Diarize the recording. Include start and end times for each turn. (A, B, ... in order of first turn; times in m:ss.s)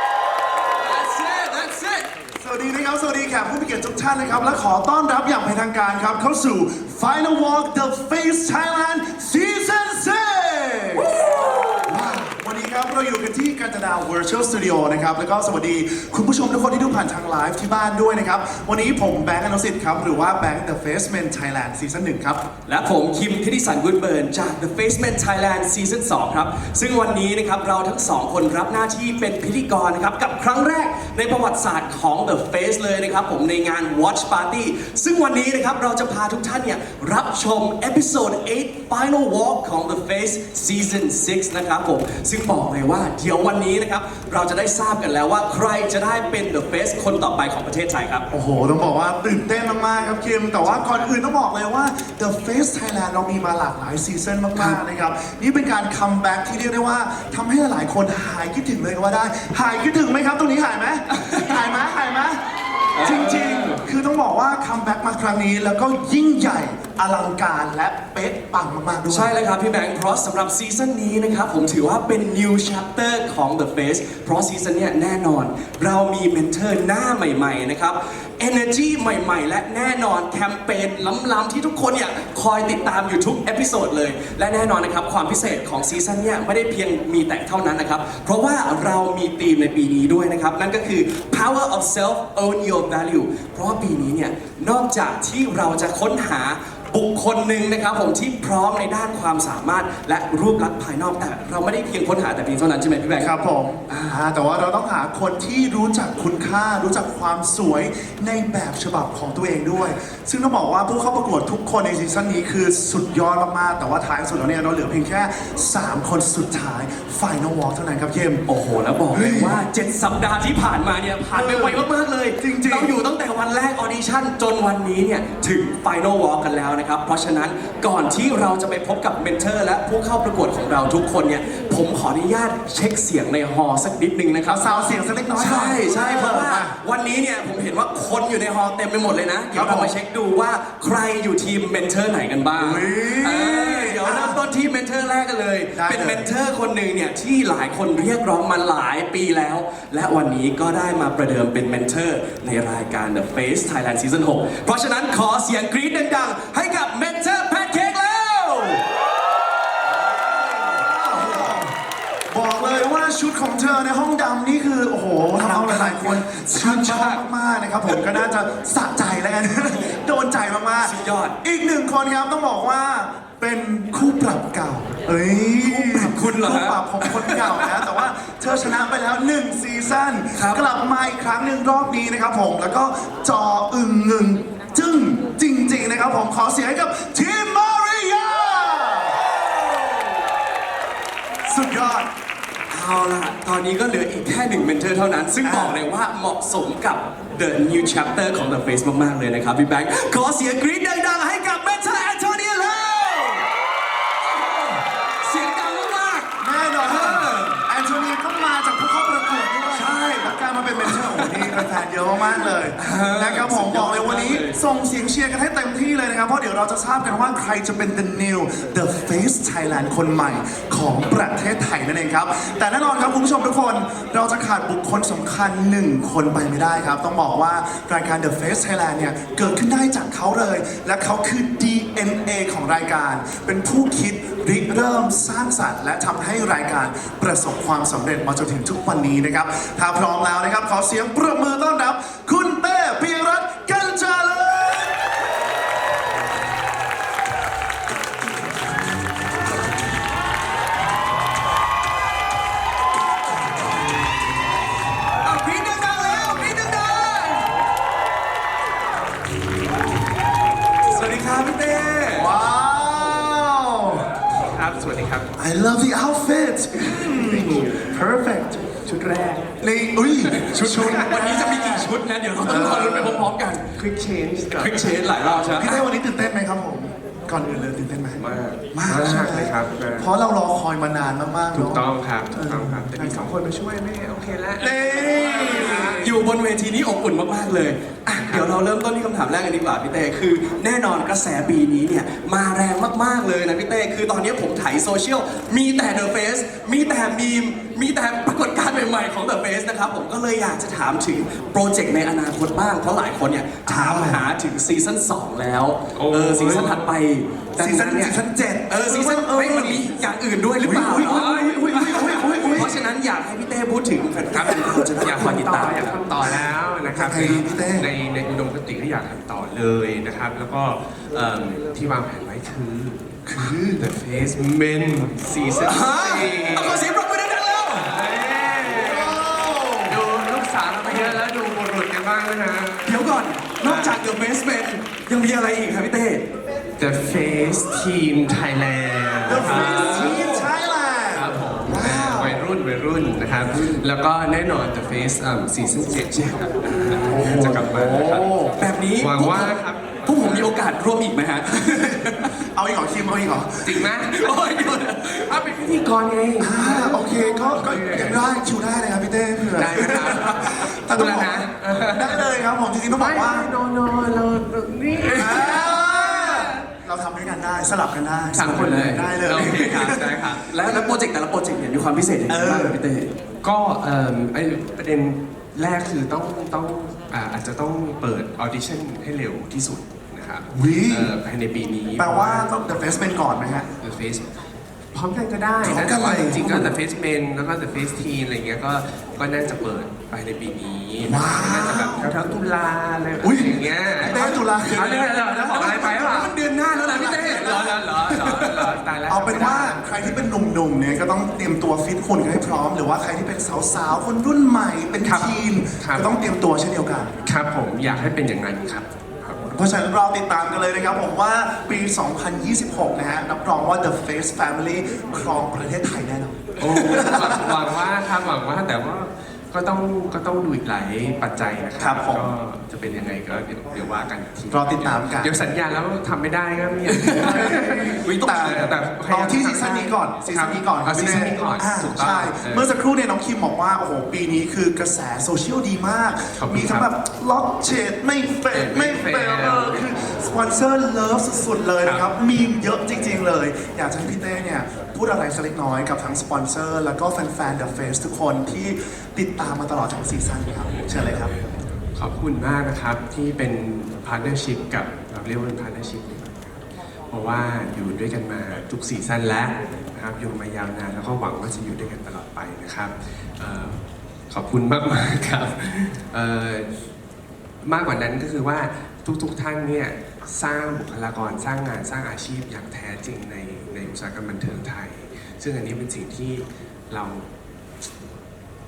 0:00.7-0:02.1 A
0:02.4-0:11.1 B
0:11.0-0:11.9 A
0:11.8-0:22.4 B
0:22.7-0:48.2 A
0:48.3-1:02.4 B
1:01.1-1:01.6 A
1:02.9-1:03.8 A
1:03.0-1:09.3 B
1:09.1-1:43.3 A
1:43.2-1:58.4 B
1:43.9-1:44.2 A
1:58.4-2:38.8 A
1:59.1-1:59.6 B
2:01.3-2:01.8 B
2:02.4-2:02.9 B
2:14.4-2:16.7 B
2:19.5-2:19.9 B
2:22.6-2:24.4 B
2:25.7-2:26.2 B
2:40.1-2:41.7 B
2:40.3-2:41.6 A
2:42.3-3:10.1 B
2:45.4-2:47.2 A
2:47.8-2:48.2 A
2:50.8-2:51.4 A
2:55.6-2:58.1 A
3:00.3-3:00.6 A
3:11.4-3:12.1 B
3:12.7-3:23.5 A
3:15.4-3:15.8 B
3:24.3-3:27.6 A
3:26.4-4:05.0 B
3:29.7-3:31.8 A
3:32.4-3:34.6 A
4:15.2-4:17.5 A
4:20.9-4:22.3 A
4:22.1-4:24.0 B
4:24.4-4:25.3 C
4:25.4-4:28.6 B
4:27.0-4:27.8 C
4:28.8-4:29.4 C
4:29.6-4:31.9 B
4:30.2-4:33.7 A
4:32.4-4:33.3 B
4:32.4-4:33.0 C
4:33.7-4:35.0 C
4:34.5-4:35.8 A
4:35.6-4:38.2 B
4:38.2-4:40.1 C
4:38.7-4:43.2 B
4:41.5-4:46.2 C
4:44.6-4:46.0 B
4:44.6-5:16.0 A
5:03.6-5:04.2 B
5:05.9-5:06.9 C
5:07.6-5:09.9 B
5:10.6-5:12.8 B
5:11.1-5:11.8 C
5:14.4-5:14.8 B
5:14.9-5:26.9 C
5:16.9-5:17.9 B
5:23.3-5:23.8 B
5:25.6-5:28.0 A
5:27.7-5:29.2 C
5:28.6-5:30.0 B
5:29.9-5:34.0 C
5:30.8-5:31.2 A
5:32.8-5:36.2 A
5:36.8-5:40.5 C
5:39.2-5:42.4 B
5:39.5-5:40.4 A
5:41.1-5:48.3 C
5:45.9-5:47.0 A
5:47.0-5:48.6 B
5:48.6-5:52.4 A
5:49.0-5:50.5 C
5:51.6-5:53.9 B
5:53.6-5:54.3 C
5:54.0-5:55.3 A
5:55.2-5:58.2 C
5:56.4-6:03.5 B
5:59.5-6:02.2 C
5:59.8-6:00.5 A
6:02.9-6:06.7 C
6:05.1-6:11.0 B
6:08.3-6:10.2 C
6:08.4-6:13.1 A
6:12.3-6:12.8 B
6:13.4-6:22.5 C
6:20.5-6:21.1 B
6:22.0-6:23.7 B
6:23.8-6:24.3 C
6:24.9-6:40.3 C
6:25.6-6:26.8 B
6:31.0-6:32.1 B
6:33.2-6:35.0 B
6:34.8-6:38.7 A
6:36.8-6:37.8 B
6:39.1-6:47.1 B
6:45.0-6:46.2 C
6:47.2-6:49.6 C
6:49.5-6:57.5 B
6:56.6-7:12.7 C
7:01.8-7:02.3 B
7:04.5-7:05.4 B
7:06.9-7:08.7 A
7:07.2-7:31.3 B
7:16.4-7:16.9 C
7:18.5-7:19.8 C
7:21.8-7:22.1 C
7:31.9-7:43.8 C
7:44.3-7:46.7 C
7:47.6-7:57.2 C